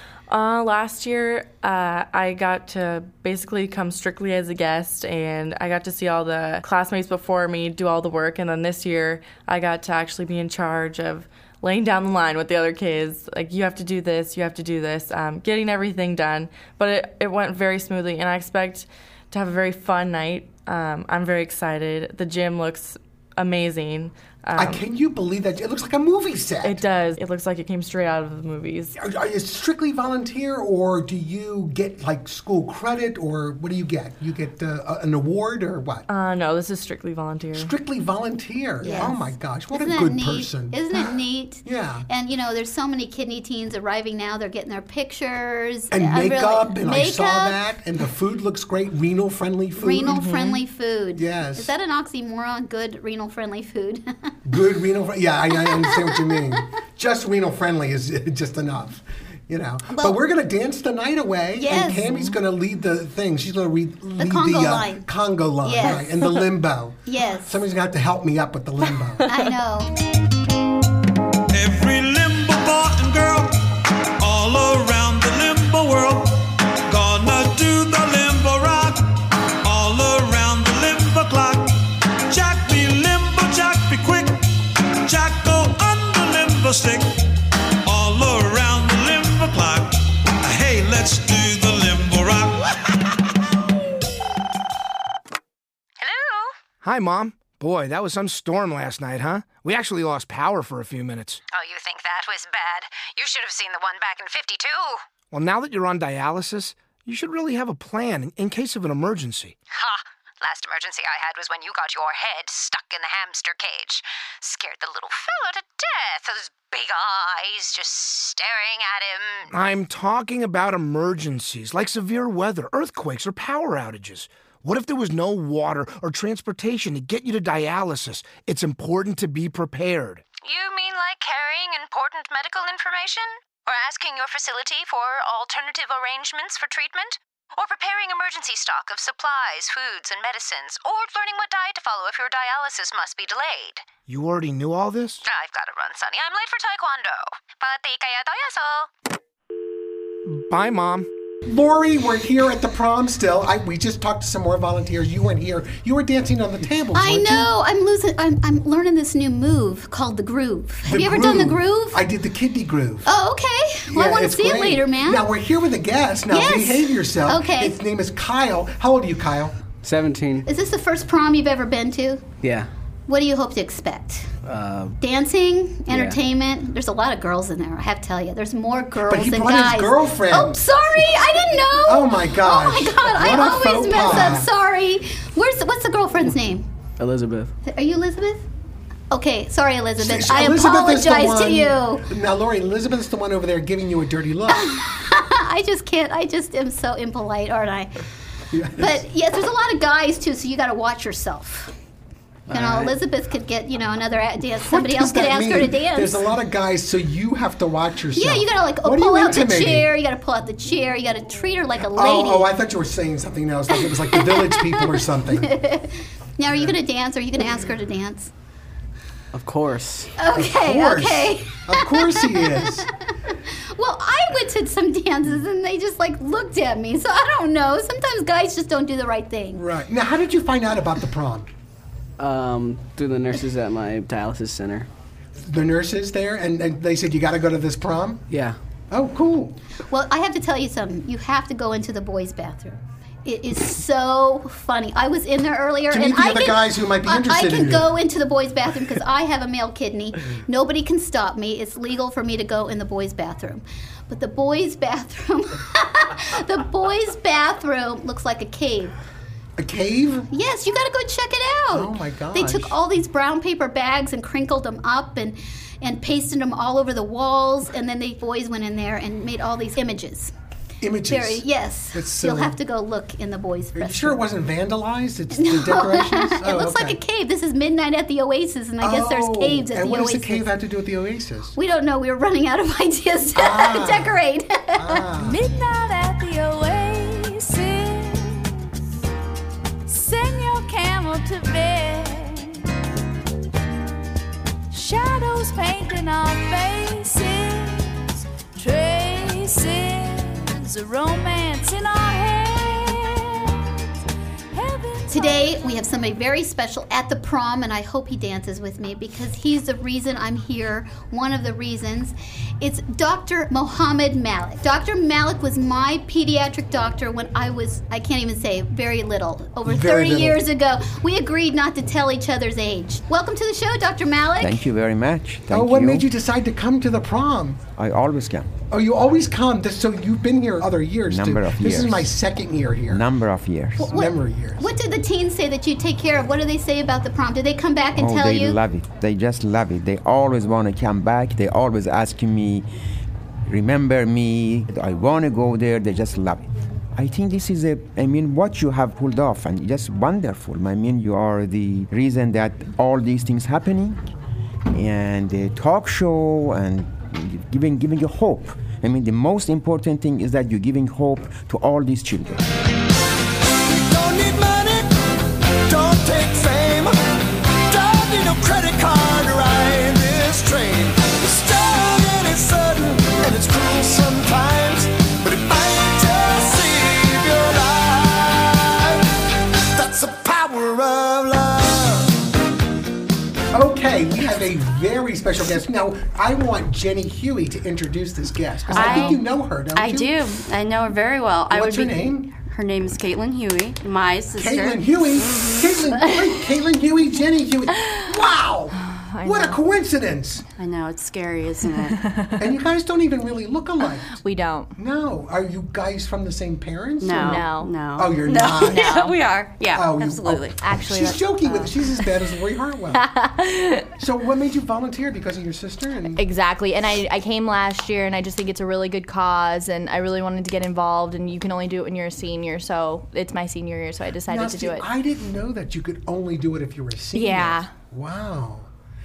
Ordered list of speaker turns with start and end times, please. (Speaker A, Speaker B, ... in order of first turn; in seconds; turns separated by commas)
Speaker A: 0.3-24.8, Speaker B: 24.6-26.8, Speaker A: 26.6-28.9, Speaker B: 29.0-36.1, Speaker A: 36.1-37.7, Speaker B: 37.5-41.1, Speaker C: 38.8-47.6, Speaker B: 41.6-42.1, Speaker B: 45.9-50.2, Speaker C: 49.8-54.4, Speaker A: 50.1-50.6, Speaker B: 51.1-51.7, Speaker B: 54.4-69.2, Speaker C: 55.6-56.3, Speaker C: 59.9-60.2, Speaker C: 61.5-62.2, Speaker C: 64.2-65.0, Speaker C: 65.6-66.1, Speaker C: 67.1-67.6, Speaker C: 69.2-69.9, Speaker D: 71.5-73.5, Speaker D: 74.2-84.4, Speaker D: 85.0-87.2, Speaker D: 87.8-92.7, Speaker E: 96.0-96.5, Speaker F: 96.8-101.4, Speaker E: 101.5-105.0, Speaker F: 105.3-109.5, Speaker E: 109.7-119.5, Speaker F: 119.5-130.2, Speaker E: 130.4-143.9, Speaker F: 144.1-145.2, Speaker E: 145.2-148.9, Speaker F: 150.3-151.1, Speaker B: 151.4-157.5, Speaker C: 156.9-162.0, Speaker B: 160.9-163.1, Speaker C: 163.1-165.2, Speaker B: 163.9-169.6, Speaker C: 166.3-167.7, Speaker G: 169.8-170.5, Speaker C: 170.4-172.2, Speaker G: 172.4-172.7, Speaker C: 173.1-174.3, Speaker G: 174.4-174.9, Speaker C: 175.0-186.7, Speaker G: 175.9-176.2, Speaker B: 179.1-181.2, Speaker B: 181.8-184.5, Speaker G: 187.0-187.5, Speaker C: 187.7-188.4, Speaker C: 189.1-192.1, Speaker B: 190.0-194.7, Speaker C: 194.5-197.9, Speaker B: 198.5-199.0, Speaker C: 198.8-201.8, Speaker G: 202.5-202.9, Speaker C: 202.5-206.2, Speaker B: 204.6-209.9, Speaker C: 208.1-212.5, Speaker B: 211.9-215.6, Speaker C: 213.8-218.3, Speaker B: 216.5-216.8, Speaker G: 219.3-220.1, Speaker C: 220.2-229.6, Speaker B: 220.3-222.9, Speaker B: 229.5-231.5, Speaker G: 232.2-234.9, Speaker B: 235.4-238.2, Speaker G: 238.3-238.6, Speaker B: 238.9-239.6, Speaker C: 239.9-258.9, Speaker B: 245.9-248.0, Speaker B: 259.6-260.3, Speaker C: 260.3-270.3, Speaker B: 261.7-262.8, Speaker B: 270.8-272.6, Speaker C: 271.1-274.2, Speaker B: 273.8-277.0, Speaker C: 275.4-280.5, Speaker B: 278.8-281.6, Speaker C: 281.6-285.0, Speaker B: 283.4-284.2, Speaker B: 284.8-285.4, Speaker H: 285.2-288.6, Speaker H: 289.9-292.6, Speaker H: 294.7-303.6, Speaker H: 304.5-305.6, Speaker C: 305.1-324.7, Speaker B: 319.6-320.4, Speaker I: 324.4-326.1, Speaker B: 325.5-327.6, Speaker I: 327.7-328.5, Speaker B: 328.7-333.1, Speaker I: 331.1-332.1, Speaker I: 332.9-333.9, Speaker B: 333.8-334.7, Speaker C: 333.9-338.6, Speaker I: 337.9-342.7, Speaker I: 343.5-346.4, Speaker I: 346.9-354.0, Speaker I: 354.7-362.4, Speaker D: 363.7-364.9, Speaker D: 365.6-366.9, Speaker D: 367.7-379.0, Speaker D: 379.7-382.1, Speaker B: 383.5-390.1, Speaker J: 388.7-389.2, Speaker K: 388.7-389.2, Speaker K: 389.7-395.5, Speaker B: 391.5-392.3, Speaker B: 394.4-400.4, Speaker J: 398.8-399.6, Speaker K: 400.6-402.0, Speaker B: 402.4-404.1, Speaker J: 404.1-404.7, Speaker B: 404.8-409.0, Speaker K: 407.0-410.5, Speaker J: 407.2-407.7, Speaker J: 408.6-409.2, Speaker B: 409.7-413.1, Speaker J: 410.6-412.0, Speaker J: 412.9-413.9, Speaker B: 414.0-416.2, Speaker J: 416.2-424.9, Speaker B: 424.3-428.7, Speaker J: 427.1-427.7